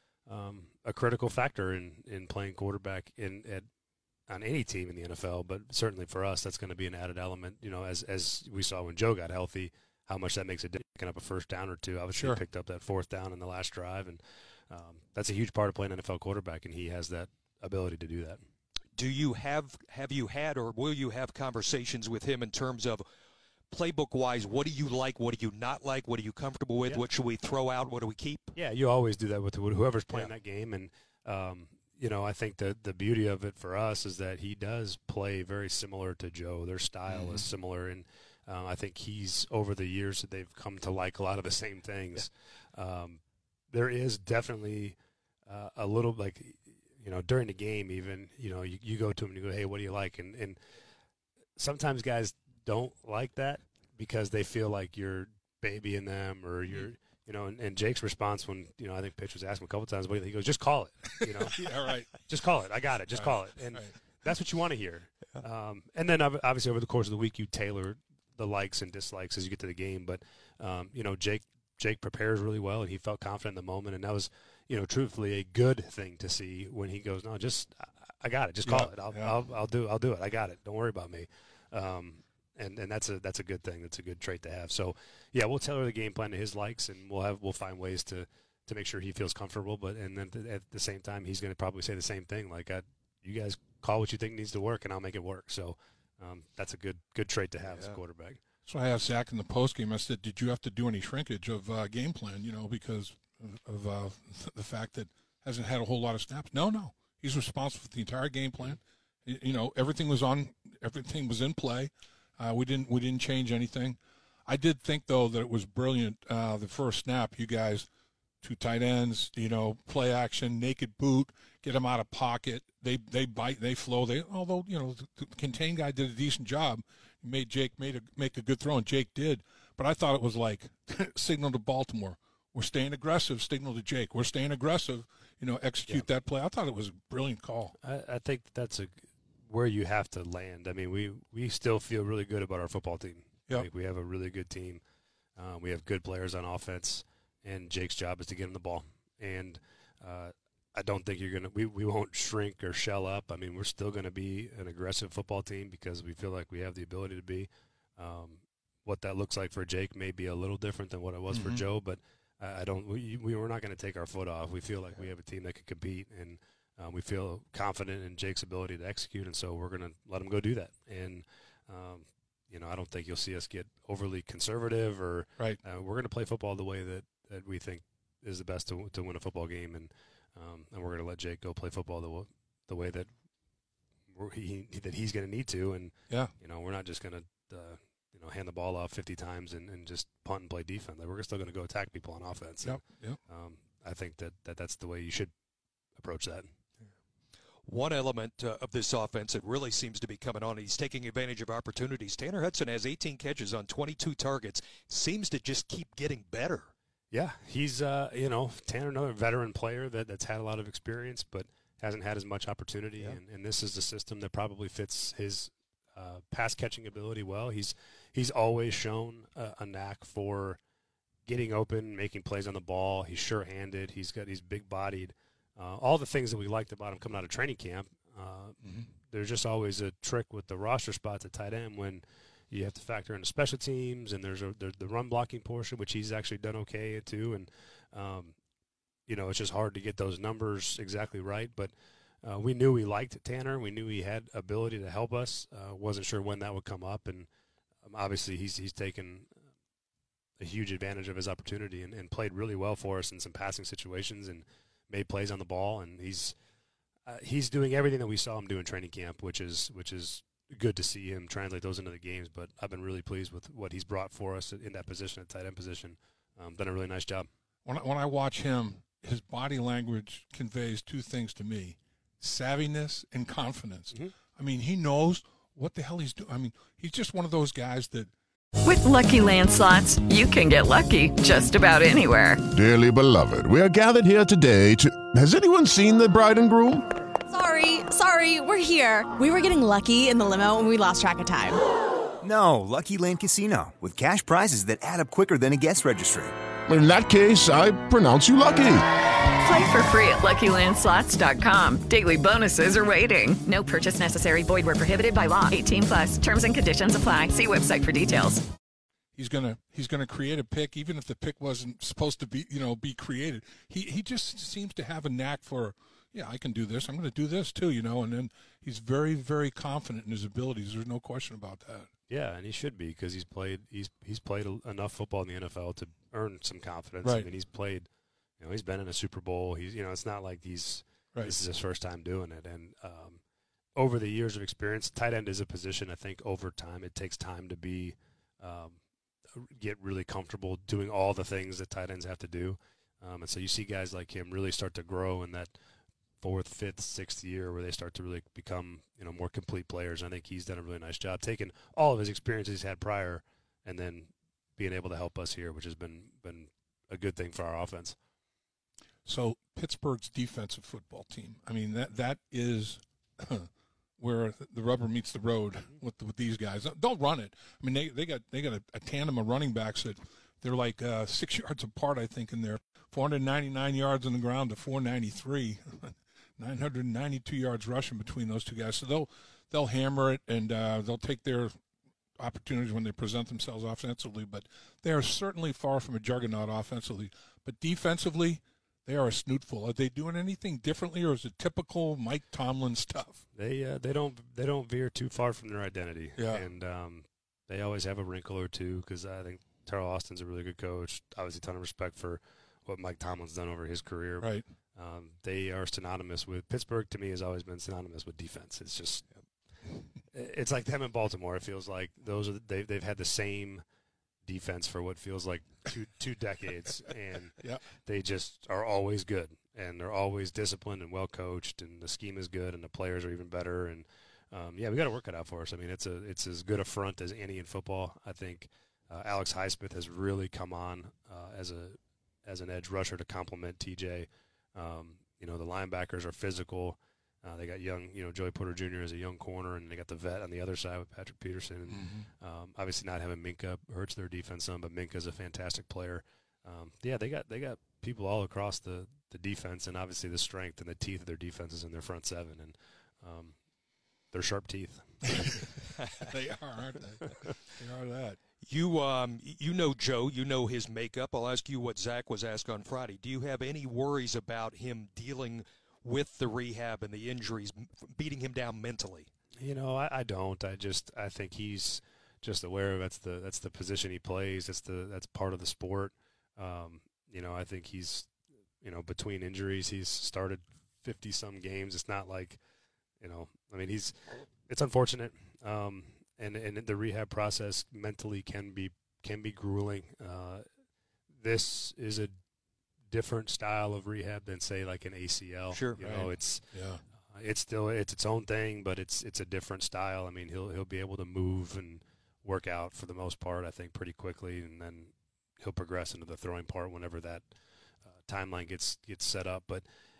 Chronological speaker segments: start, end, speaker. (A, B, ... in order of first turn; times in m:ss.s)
0:00.3-0:03.7 A
0:04.3-0:18.4 A
0:18.9-0:23.0 B
0:23.7-0:28.5 B
0:28.5-0:43.2 A
0:37.1-0:37.4 C
0:43.7-0:45.0 A
0:45.5-0:50.6 A
0:51.6-1:01.6 A
1:01.1-1:02.3 C
1:02.3-1:38.4 A
1:03.1-1:03.9 C
1:18.6-1:19.4 C
1:37.6-1:38.0 C
1:38.6-1:57.9 C
1:58.4-2:17.7 C
2:17.8-2:24.8 A
2:25.4-3:03.1 A
2:41.3-2:41.6 C
3:04.1-3:15.3 A
3:12.6-3:13.2 C
3:16.0-3:16.5 A
3:17.7-3:26.7 B
3:27.1-3:40.6 A
3:41.2-3:58.3 A
3:48.6-3:48.9 C
3:59.1-4:07.3 A
4:07.8-4:09.4 A
4:10.4-4:16.3 A
4:17.1-4:27.3 A
4:27.6-4:38.1 C
4:38.6-4:42.4 D
4:42.5-4:46.8 E
4:47.3-4:51.6 F
4:52.2-4:56.3 G
4:56.7-4:58.8 E
4:59.4-5:08.4 D
5:09.1-5:21.9 C
5:22.1-5:27.9 A
5:28.4-5:33.2 A
5:33.8-5:45.5 A
5:46.2-5:58.0 A
5:59.0-6:21.6 C
6:22.2-6:33.2 C
6:33.3-6:49.0 A
6:36.2-6:36.5 C
6:44.2-6:44.4 C
6:50.1-6:53.6 A
6:54.2-7:33.4 A
7:21.7-7:22.1 C
7:34.1-7:35.0 A
7:35.0-7:35.4 C
7:36.1-7:38.2 C
7:38.4-7:49.1 B
7:49.4-8:02.4 A
8:03.0-8:10.5 A
8:11.1-8:12.1 A
8:12.9-8:16.4 A
8:15.5-8:15.8 B
8:15.8-8:16.8 C
8:17.1-8:27.3 A
8:27.8-8:29.6 A